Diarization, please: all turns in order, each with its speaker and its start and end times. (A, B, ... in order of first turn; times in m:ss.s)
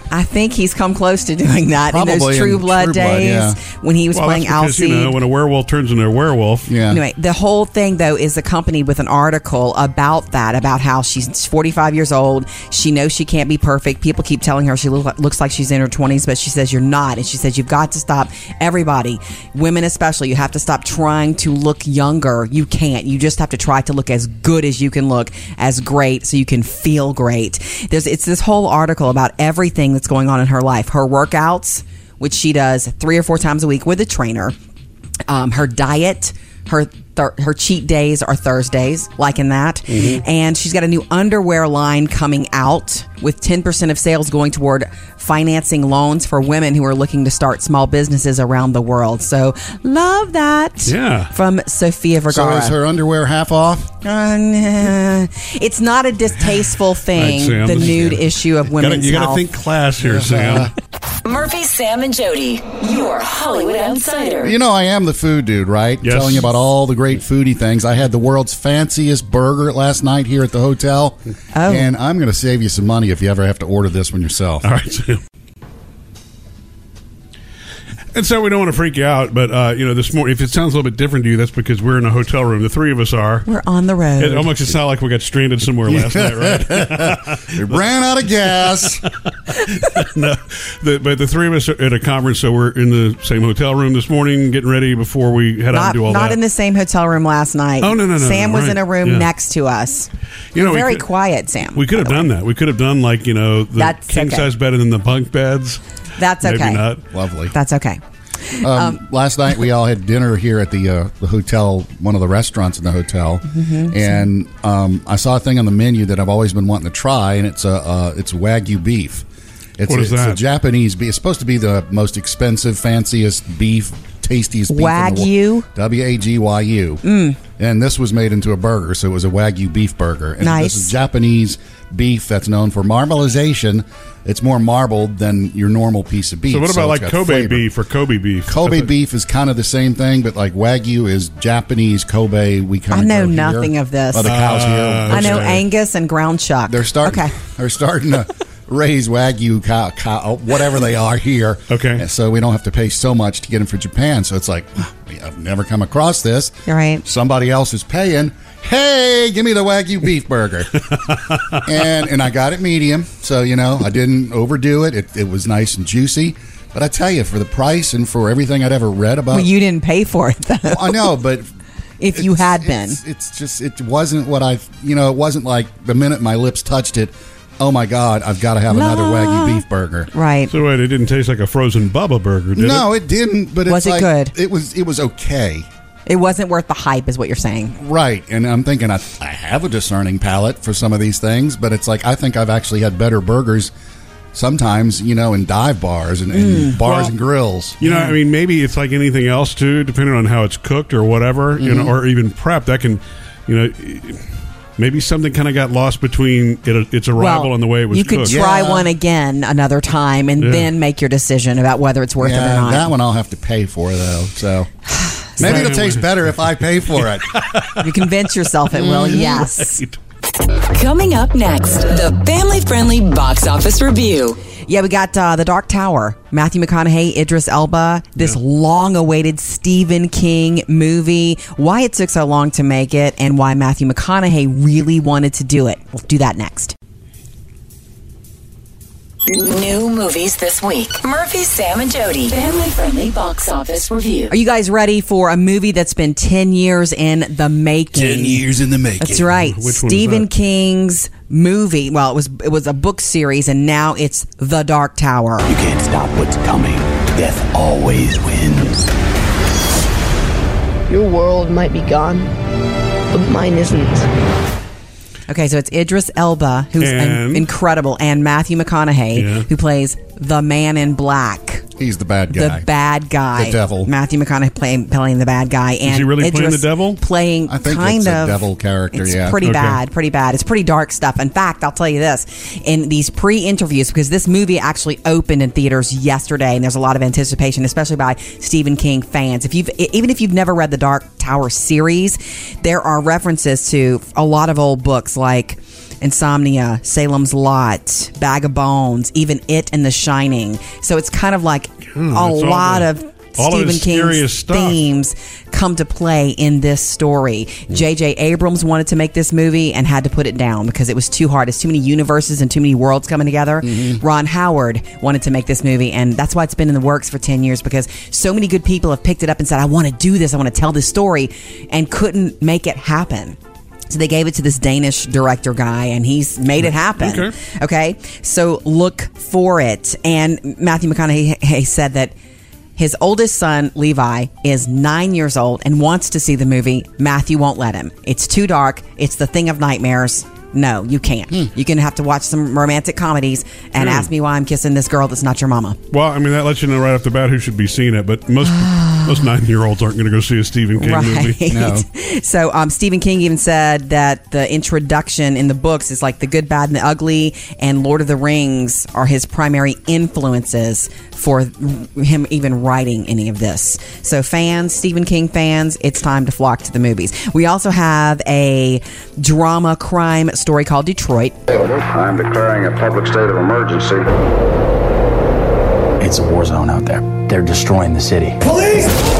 0:00.1-0:05.2 A
0:01.9-0:03.6 B
0:04.1-0:06.7 C
0:06.7-0:07.0 B
0:06.9-0:34.6 A
0:35.3-0:52.8 A
0:39.9-0:40.2 C
0:50.8-0:51.3 C
0:52.3-0:53.9 B
0:54.0-0:59.4 A
0:57.1-1:00.7 C
1:00.0-1:00.7 B
1:01.2-1:04.6 D
1:04.4-1:14.6 B
1:06.0-1:06.4 C
1:11.5-1:11.9 A
1:14.6-1:15.2 C
1:18.1-1:23.5 C
1:23.5-1:24.5 A
1:24.2-1:27.8 C
1:25.9-1:29.0 B
1:28.4-1:36.4 C
1:35.7-1:42.2 A
1:37.8-1:39.3 C
1:40.5-1:41.1 C
1:41.7-1:45.8 C
1:43.8-1:44.5 A
1:46.2-1:46.8 A
1:46.4-1:47.0 C
1:47.1-1:47.5 B
1:47.5-1:49.0 A
1:48.6-1:59.2 B
1:53.5-1:54.2 A
1:59.8-2:07.0 B
1:59.8-2:00.4 C
2:04.7-2:05.7 A
2:07.0-2:07.4 A
2:07.6-2:17.7 B
2:10.4-2:10.9 A
2:16.5-2:18.9 C
2:18.5-2:25.6 B
2:22.9-2:24.3 A
2:24.2-2:25.6 C
2:25.1-2:27.3 A
2:26.7-2:40.9 B
2:31.7-2:32.0 C
2:36.7-2:37.0 A
2:40.9-2:41.6 C
2:41.6-2:49.5 B
2:49.3-2:51.1 A
2:50.7-2:51.5 B
2:52.0-2:53.0 A
2:52.1-3:00.1 B
2:58.7-3:00.5 A
3:00.5-3:02.8 C
3:02.6-3:05.7 B
3:03.7-3:04.3 A
3:06.0-3:07.8 A
3:07.8-3:13.7 B
3:14.3-3:17.8 B
3:16.3-3:16.8 A
3:16.8-3:17.1 C
3:17.8-3:24.2 C
3:17.8-3:18.1 A
3:21.6-3:21.9 B
3:24.8-3:28.4 C
3:27.2-3:32.9 A
3:28.3-3:28.9 B
3:30.4-3:30.7 C
3:32.2-3:34.7 B
3:35.4-3:35.7 A
3:35.4-3:37.4 B
3:35.4-3:37.8 C
3:37.8-3:39.8 A
3:38.7-3:39.4 B
3:39.2-3:39.9 C
3:40.5-3:44.4 D
3:44.7-3:56.7 A
3:59.2-4:04.3 D
4:04.3-4:08.4 A
4:08.0-4:09.3 E
4:09.0-4:15.5 A
4:09.3-4:10.3 C
4:15.5-4:18.9 E
4:20.9-4:22.3 F
4:23.1-4:24.1 F
4:25.3-4:31.6 A
4:26.8-4:27.5 C
4:29.2-4:29.5 C
4:31.8-4:32.6 B
4:32.3-5:23.4 A
4:33.4-4:33.9 B
4:35.9-4:37.0 C
4:37.5-4:39.4 B
4:39.4-4:39.8 C
5:01.9-5:04.8 C
5:13.6-5:14.0 B
5:23.9-5:32.1 A
5:26.6-5:27.3 C
5:32.8-5:45.8 A
5:43.8-5:44.1 C
5:45.9-5:51.4 C
5:48.4-5:49.3 A
5:50.8-6:11.4 A
5:51.5-5:51.9 B
6:11.5-6:14.1 G
6:16.0-6:18.5 E